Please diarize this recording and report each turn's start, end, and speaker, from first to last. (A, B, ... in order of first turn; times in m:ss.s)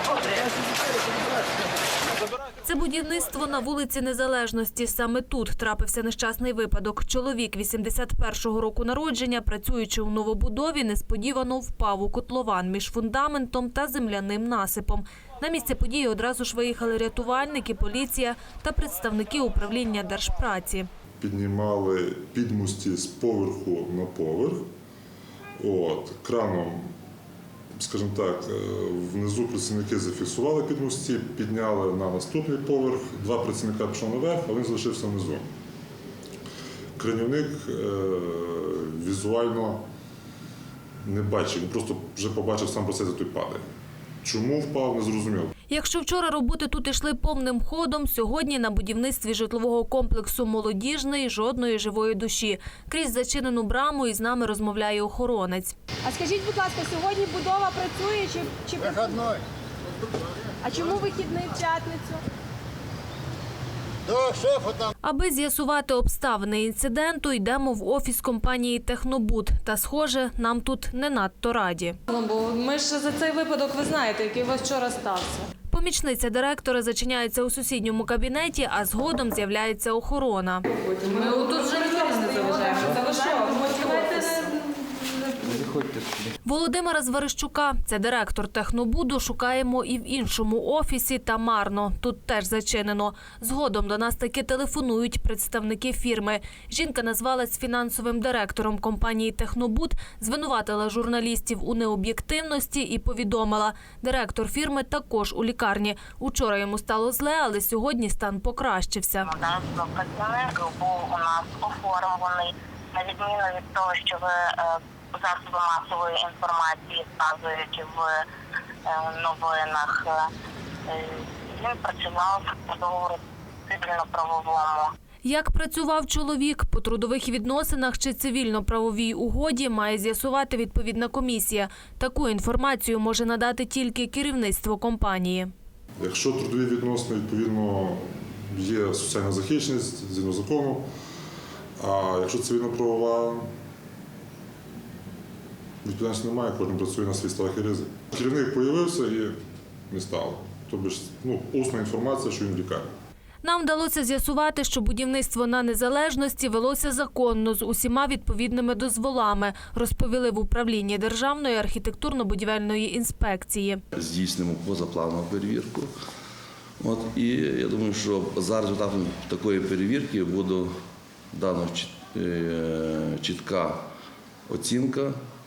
0:02.6-0:20.9 A
0:21.2-0:24.7 B
0:25.6-0:26.9 B
0:27.8-0:35.5 B
0:37.0-0:39.8 B
0:41.0-0:43.6 B
0:44.2-0:45.5 B
0:45.7-0:55.8 A
0:56.0-0:59.4 C
1:00.6-1:02.2 C
1:05.0-1:12.0 A
1:12.1-1:15.5 D
1:15.7-1:24.3 A
1:20.8-1:24.5 D
1:25.4-1:25.9 D
1:26.4-1:49.3 A
1:49.3-1:58.1 E
1:58.9-2:00.1 E
2:00.9-2:04.9 E
2:05.2-2:15.5 A
2:16.0-2:20.9 B
2:21.8-2:23.5 B
2:25.8-2:29.4 B
2:29.9-2:32.9 B
2:33.4-2:43.8 A
2:44.0-2:45.8 F
2:46.9-2:50.6 F
2:51.4-2:53.7 F
2:54.5-2:55.1 F